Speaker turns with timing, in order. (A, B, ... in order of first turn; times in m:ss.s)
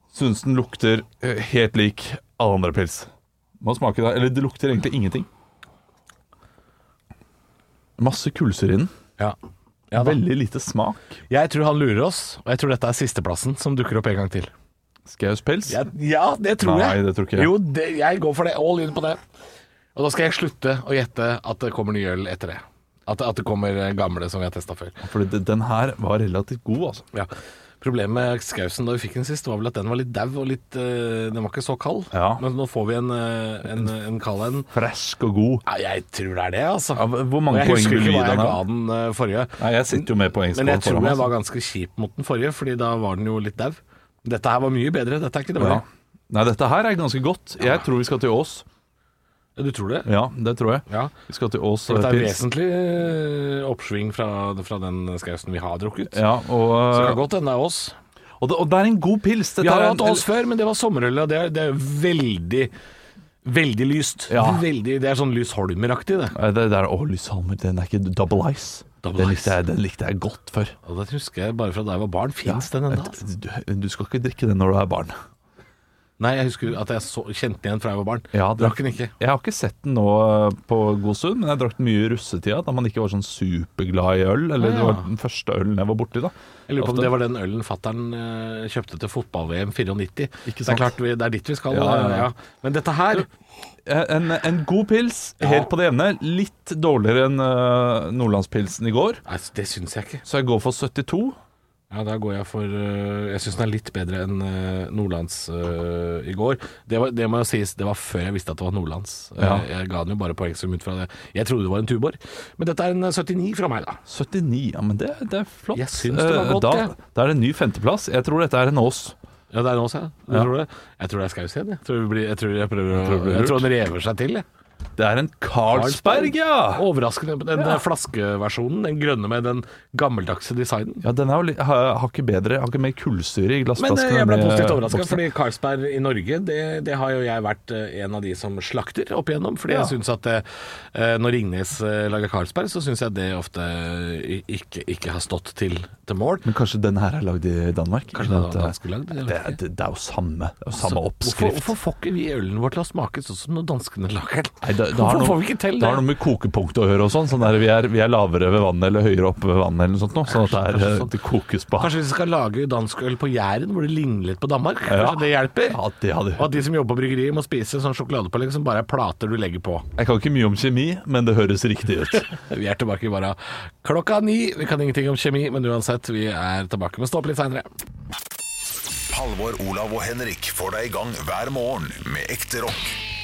0:00.1-0:03.1 A
0:03.6-0:05.3 A
0:08.0-0:08.9 A
0:09.9-0:10.2 B
0:10.0-0:11.2 A
0:11.3-0:14.5 B
0:15.1-0:15.8 A
0:15.7-0:19.2 B
0:16.6-0:17.6 A
0:20.0-0:25.0 B
0:25.0-0:27.1 A
0:27.1-0:34.7 B
0:32.1-0:32.4 A
0:34.7-0:35.6 A
0:35.7-0:45.8 B
0:37.0-0:38.6 A
0:39.6-0:41.3 A
0:45.6-0:48.6 A
0:49.6-0:50.1 B
0:50.1-0:52.4 A
0:50.9-0:51.1 B
0:51.9-0:56.2 B
0:56.1-0:57.2 A
0:56.9-0:58.0 B
0:58.4-1:00.3 A
0:59.6-1:02.7 B
1:03.4-1:06.3 B
1:04.3-1:04.6 A
1:06.3-1:10.8 A
1:09.0-1:09.6 B
1:10.8-1:13.2 B
1:12.4-1:15.2 A
1:16.2-1:19.1 B
1:18.3-1:27.1 A
1:24.6-1:25.1 B
1:26.7-1:33.3 B
1:30.5-1:31.0 A
1:31.7-1:32.3 A
1:33.9-1:39.2 A
1:35.4-1:35.7 B
1:39.3-1:40.2 B
1:40.2-1:41.4 A
1:41.9-1:54.0 B
1:49.4-1:49.7 A
1:54.1-1:59.1 A
1:55.7-1:56.9 B
1:59.5-2:04.4 B
2:03.0-2:03.7 A
2:05.0-2:06.8 A
2:05.7-2:11.0 B
2:11.0-2:15.2 A
2:13.8-2:26.5 B
2:19.7-2:19.9 A
2:26.4-2:28.8 A
2:28.1-2:29.6 B
2:29.3-2:31.7 A
2:30.8-2:36.1 B
2:34.6-2:42.0 A
2:40.3-2:41.1 B
2:41.8-2:45.8 B
2:44.9-2:46.5 A
2:46.4-2:49.9 B
2:50.0-2:52.3 A
2:52.3-2:57.7 B
2:59.1-3:03.0 C